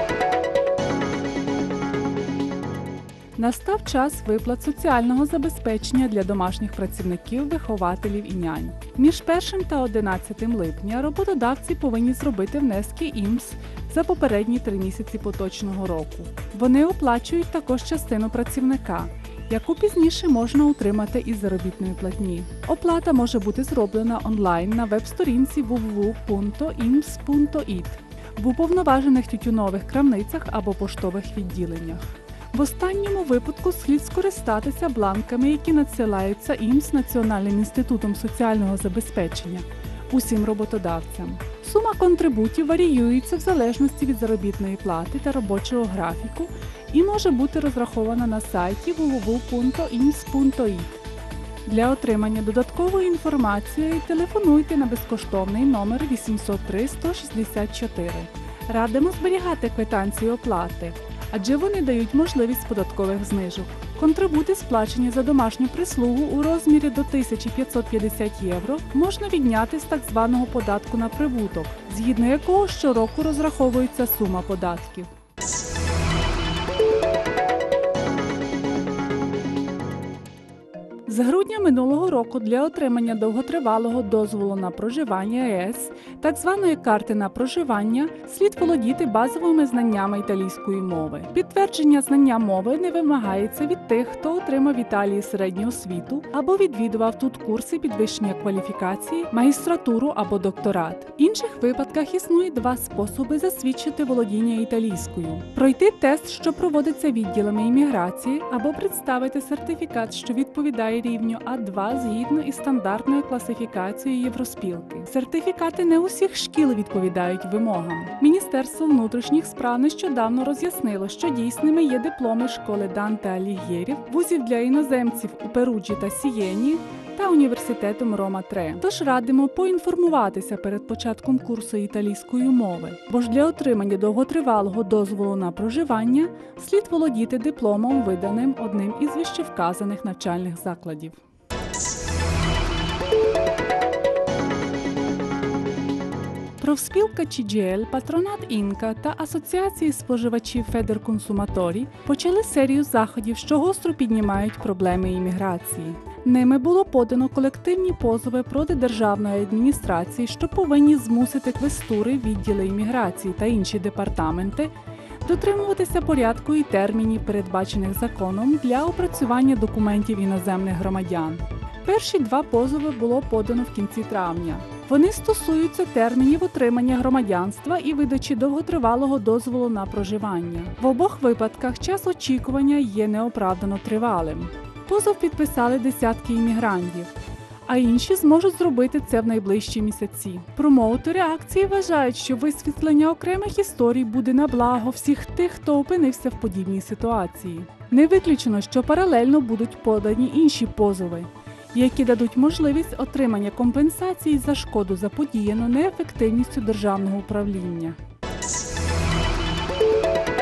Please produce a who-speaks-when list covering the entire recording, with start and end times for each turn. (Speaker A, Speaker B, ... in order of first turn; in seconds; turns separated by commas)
Speaker A: 3.4-50.9, Speaker A: 51.6-75.1, Speaker A: 81.1-141.2, Speaker A: 146.6-164.7, Speaker A: 165.2-187.1, Speaker A: 187.7-208.0